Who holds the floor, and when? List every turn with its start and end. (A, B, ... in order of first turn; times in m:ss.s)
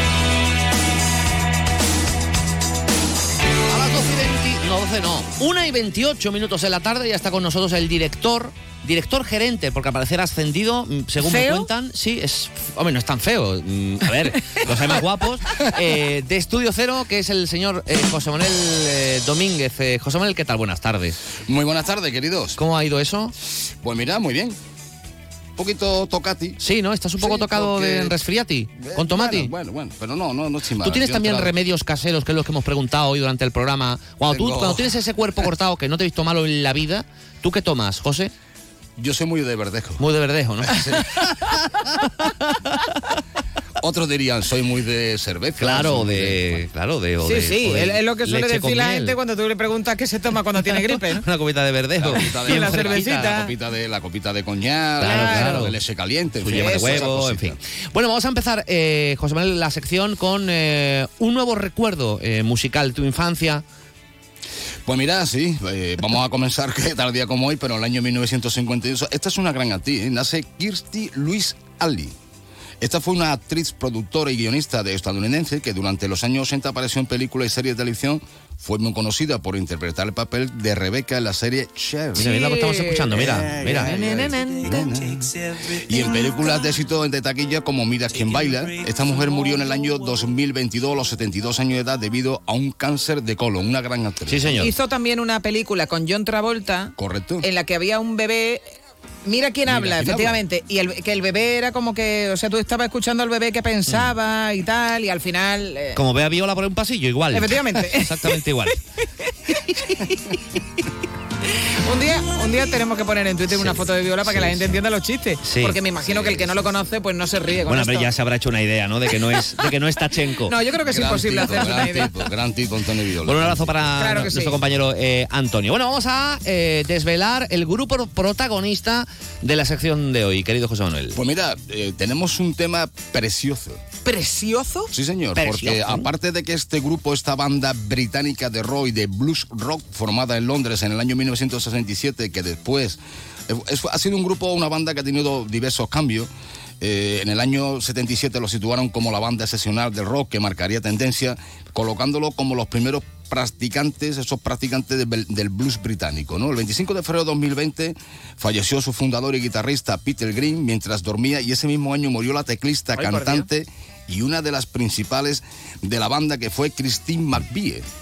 0:03.7-0:21.2 A
0:11.2-0:11.7 B
0:21.4-0:22.6 C
0:22.6-0:23.3 A
0:23.8-0:24.6 C
0:25.6-0:26.6 C
0:26.6-0:29.5 A
0:27.2-0:28.2 C
0:28.8-0:31.5 C
0:30.8-0:38.3 A
0:34.3-0:35.0 C
0:39.0-0:40.0 C
0:40.0-0:43.0 A
0:40.6-0:41.8 C
0:43.8-0:46.6 C
0:45.6-0:49.2 A
0:47.2-0:51.2 B
0:50.7-0:53.3 A
0:52.0-0:57.6 C
0:52.2-0:53.5 B
0:55.0-0:55.8 A
0:55.0-0:55.7 B
0:56.4-1:03.6 A
0:56.5-0:57.1 B
1:04.8-1:12.1 C
1:12.8-1:22.3 C
1:22.2-1:24.7 A
1:22.2-1:22.6 B
1:23.1-1:34.7 C
1:34.3-1:34.7 A
1:34.6-1:38.6 B
1:37.0-1:37.5 C
1:39.2-1:46.0 B
1:39.6-1:40.4 C
1:45.9-1:48.8 A
1:47.3-1:48.4 B
1:49.5-1:49.9 B
1:49.7-1:50.3 A
1:51.8-1:58.1 B
1:53.5-1:54.7 A
1:55.4-1:55.8 A
1:56.0-1:56.6 C
1:57.6-2:01.8 A
2:00.5-2:02.2 B
2:00.8-2:03.8 C
2:03.2-2:11.2 A
2:04.0-2:04.6 B
2:11.1-2:13.8 C
2:14.0-2:14.9 B
2:14.9-2:26.3 C
2:15.3-2:16.1 A
2:26.8-2:47.8 C
2:43.0-2:43.4 B